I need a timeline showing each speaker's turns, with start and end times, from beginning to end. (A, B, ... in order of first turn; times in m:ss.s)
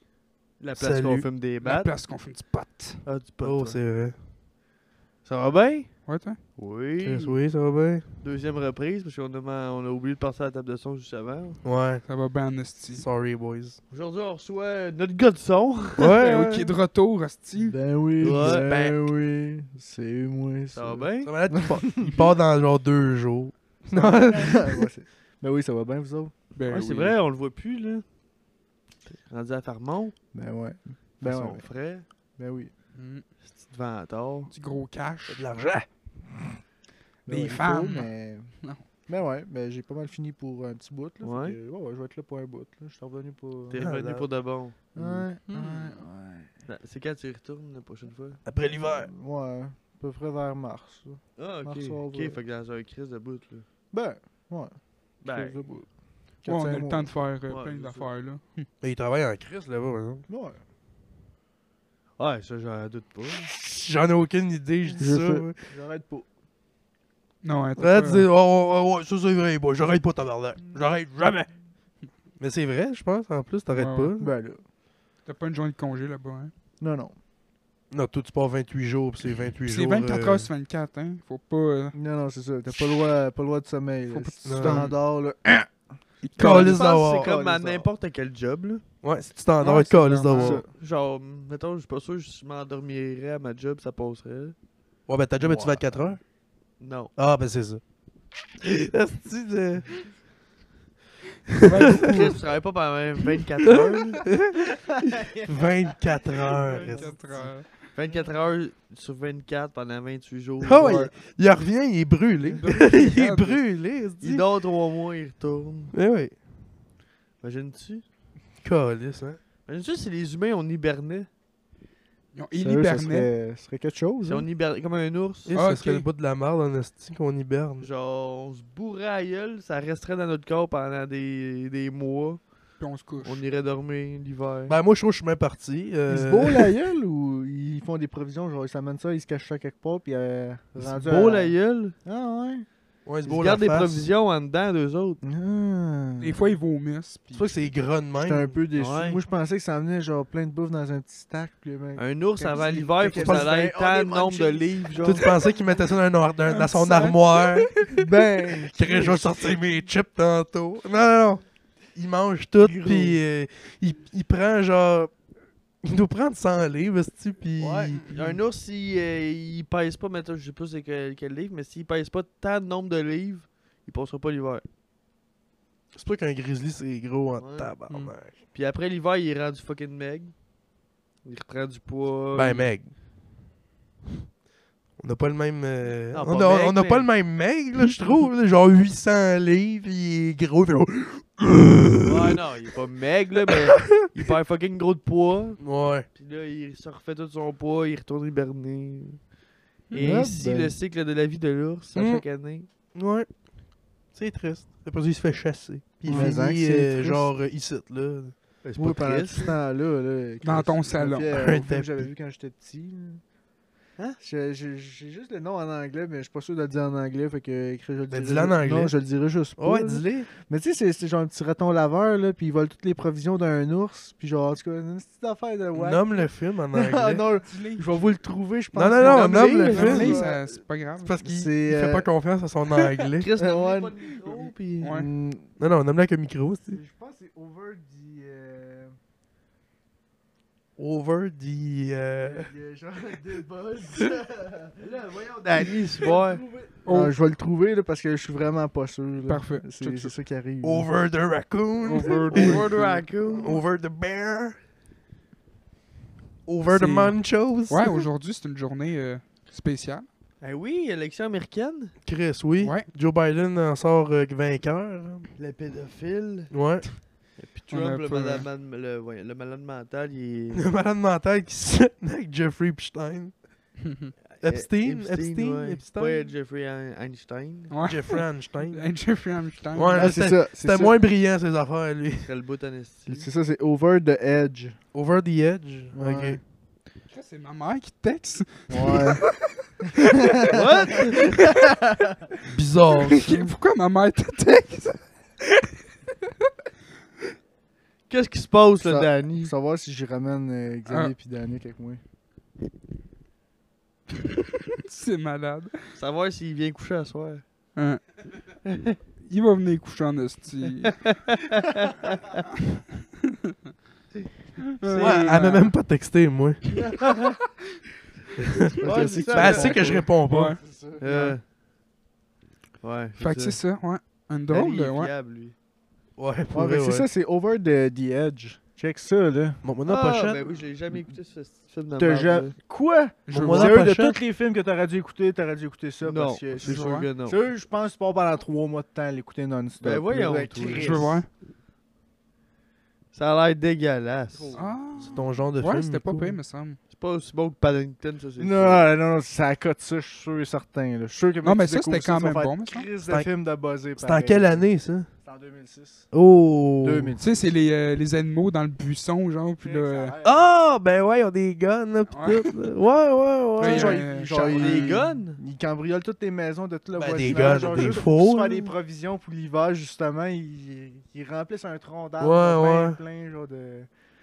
0:00.6-0:01.9 A
0:00.8-0:01.3 B
0:01.6-0:03.1 C
0:03.0-0:03.8 A
0:03.4-0:04.2 B
0:05.2-0:06.0 A
0:06.1-0:06.4 C
0:06.6-0:07.4 A
0:07.0-0:08.1 B
0:08.2-0:11.6 A
0:11.6-0:12.0 B
0:12.1-0:13.1 C
0:12.9-0:13.8 B
0:13.9-0:16.2 A
0:16.0-0:16.7 B
0:16.2-0:17.8 C
0:17.6-0:22.2 D
0:18.2-0:19.0 A
0:18.3-0:18.6 B
0:20.7-0:21.3 A
0:21.2-0:24.9 B
0:23.9-0:26.3 D
0:26.6-0:27.2 C
0:26.7-0:28.0 A
0:29.1-0:30.2 A
0:30.3-0:31.8 D
0:31.2-0:32.1 A
0:32.4-0:32.7 D
0:33.0-0:33.2 C
0:33.4-0:34.5 A
0:34.5-0:35.5 C
0:35.3-0:35.9 B
0:37.3-0:38.1 C
0:37.3-0:44.2 D
0:41.2-0:41.6 A
0:43.7-0:45.2 A
0:43.8-0:44.3 B
0:44.9-0:46.5 D
0:45.5-0:46.0 C
0:46.7-0:48.4 A
0:48.5-0:49.1 B
0:48.7-0:52.4 D
0:51.4-0:53.7 A
0:53.9-0:57.1 D
0:55.2-0:55.6 A
0:56.5-0:58.7 C
0:57.5-0:58.1 A
0:58.8-1:00.2 B
1:00.3-1:00.6 D
1:02.2-1:03.5 A
1:03.6-1:05.6 B
1:05.0-1:06.3 D
1:07.4-1:08.3 C
1:07.8-1:11.5 B
1:12.4-1:14.3 B
1:13.7-1:14.1 C
1:14.2-1:14.6 D
1:15.2-1:16.5 C
1:16.8-1:17.2 D
1:17.9-1:20.5 B
1:19.7-1:22.0 C
1:22.0-1:25.8 D
1:24.1-1:25.0 C
1:24.4-1:24.9 B
1:26.2-1:26.8 C
1:26.4-1:27.3 B
1:26.4-1:28.8 A
1:27.1-1:27.9 D
1:29.0-1:30.6 B
1:29.6-1:30.6 C
1:30.3-1:30.7 D
1:30.7-1:34.6 A
1:35.1-1:36.2 B
1:35.4-1:36.0 D
1:36.8-1:37.1 A
1:37.2-1:37.8 B
1:38.6-1:40.1 B
1:41.5-1:42.3 B
1:41.6-1:42.4 C
1:42.1-1:44.3 A
1:43.7-1:44.6 B
1:45.4-1:47.1 B
1:46.7-1:47.8 C
1:46.7-1:47.4 D
1:47.9-1:51.0 A
1:50.6-1:54.4 B
1:50.8-1:51.1 C
1:52.6-1:53.6 C
1:54.2-1:55.9 A
1:55.9-1:56.4 B
1:57.4-1:58.0 A
1:58.6-1:59.4 B
1:59.7-2:01.3 A
2:02.3-2:03.3 C
2:02.5-2:04.5 D
2:04.2-2:05.5 A
2:05.5-2:07.9 B
2:05.5-2:06.1 C
2:07.8-2:12.4 A
2:12.8-2:13.4 C
2:13.2-2:14.8 A
2:14.7-2:16.7 B
2:16.1-2:22.7 D
2:20.8-2:21.4 B
2:21.1-2:22.0 A
2:23.0-2:24.1 B
2:23.3-2:25.2 A
2:25.2-2:26.4 D
2:26.2-2:27.7 C
2:27.3-2:28.6 B
2:28.2-2:35.4 D
2:28.7-2:29.2 A
2:32.0-2:35.3 A
2:33.1-2:33.5 B
2:35.0-2:38.1 B
2:36.5-2:37.2 D
2:37.8-2:39.6 D
2:38.6-2:45.2 B
2:42.6-2:43.2 D
2:45.8-2:48.0 B
2:47.6-2:54.6 A
2:48.1-2:48.4 C
2:55.9-2:58.4 B
2:57.4-2:57.7 A
2:58.5-3:00.4 A
3:01.2-3:02.7 A
3:02.4-3:03.0 B
3:05.0-3:12.3 B
3:06.1-3:07.2 A
3:12.0-3:15.6 A
3:15.6-3:16.1 B
3:16.1-3:19.3 A
3:19.9-3:20.2 C
3:19.9-3:22.7 A
3:20.0-3:20.7 D
3:22.0-3:22.2 B
3:22.9-3:28.3 B
3:26.0-3:26.3 C
3:26.1-3:27.3 D
3:28.6-3:29.6 A
3:28.8-3:33.2 D
3:30.4-3:31.6 C
3:31.3-3:32.1 B
3:34.2-3:50.6 D
3:38.1-3:39.0 B
3:39.6-3:40.3 B
3:45.7-3:47.2 B
3:47.5-3:48.0 C
3:48.7-3:50.3 B
3:49.0-3:50.1 A
3:49.7-3:51.1 C
3:51.0-3:53.3 B
3:51.2-3:52.1 D
3:53.2-3:54.8 A
3:53.4-3:55.5 D
3:54.8-3:55.1 C
3:55.6-3:56.8 B
3:56.7-3:59.0 D
4:00.8-4:02.5 B
4:02.2-4:10.9 D
4:04.8-4:06.4 A
4:06.9-4:07.1 C
4:09.3-4:10.1 C
4:10.6-4:12.7 B
4:11.8-4:13.0 C
4:12.3-4:13.6 A
4:13.4-4:14.6 B
4:16.5-4:18.1 B
4:16.7-4:20.1 C
4:20.4-4:22.0 A
4:22.0-4:25.3 B
4:22.6-4:22.9 C
4:25.4-4:26.5 A
4:26.5-4:26.9 B
4:27.4-4:30.6 A
4:27.7-4:28.4 C
4:30.5-4:33.4 B
4:34.3-4:37.7 A
4:34.4-4:36.2 B
4:37.7-4:40.3 C
4:37.8-4:39.0 B
4:39.7-4:42.3 B
4:40.0-4:41.0 D
4:42.2-4:43.3 A
4:43.1-4:44.8 D
4:44.9-4:46.4 B
4:45.9-4:46.4 D
4:47.1-4:49.7 C
4:48.7-4:49.2 D
4:49.9-4:50.9 D
4:50.5-4:51.4 A
4:52.5-4:53.5 B
4:53.1-4:55.4 C
4:58.1-4:59.5 A
4:58.8-5:02.0 D
5:00.9-5:01.1 C
5:04.8-5:05.9 C
5:06.0-5:07.4 A
5:07.8-5:08.2 C
5:09.3-5:11.1 C
5:11.1-5:12.4 A
5:14.8-5:15.7 C
5:14.8-5:15.4 A
5:15.0-5:16.9 B
5:16.9-5:17.3 A
5:18.4-5:20.6 B
5:18.8-5:20.1 A
5:18.8-5:21.4 D
5:20.2-5:20.6 C
5:21.0-5:21.4 A
5:22.8-5:23.6 A
5:23.2-5:25.1 C
5:24.5-5:25.6 A
5:26.2-5:27.1 B
5:26.5-5:29.6 D
5:29.6-5:30.4 B
5:29.9-5:32.5 A
5:32.0-5:41.2 D
5:33.3-5:33.8 C
5:33.3-5:34.2 B
5:36.0-5:37.4 A
5:36.6-5:37.1 C
5:39.8-5:41.1 A
5:40.8-5:41.3 C
5:43.1-5:44.5 A
5:44.3-5:45.2 D
5:44.5-5:46.8 C
5:45.0-5:46.4 B
5:46.9-5:48.9 A
5:48.4-5:56.1 D
5:51.4-5:52.9 C
5:54.0-5:55.1 B
5:56.1-5:57.2 B
5:56.8-5:57.4 D
5:57.2-6:00.2 C
5:59.6-6:00.4 D
6:00.2-6:04.1 B
6:02.1-6:02.6 C
6:03.6-6:13.9 D
6:03.6-6:05.1 C
6:04.4-6:05.4 A
6:07.0-6:08.7 B
6:07.3-6:08.1 A
6:12.2-6:13.0 B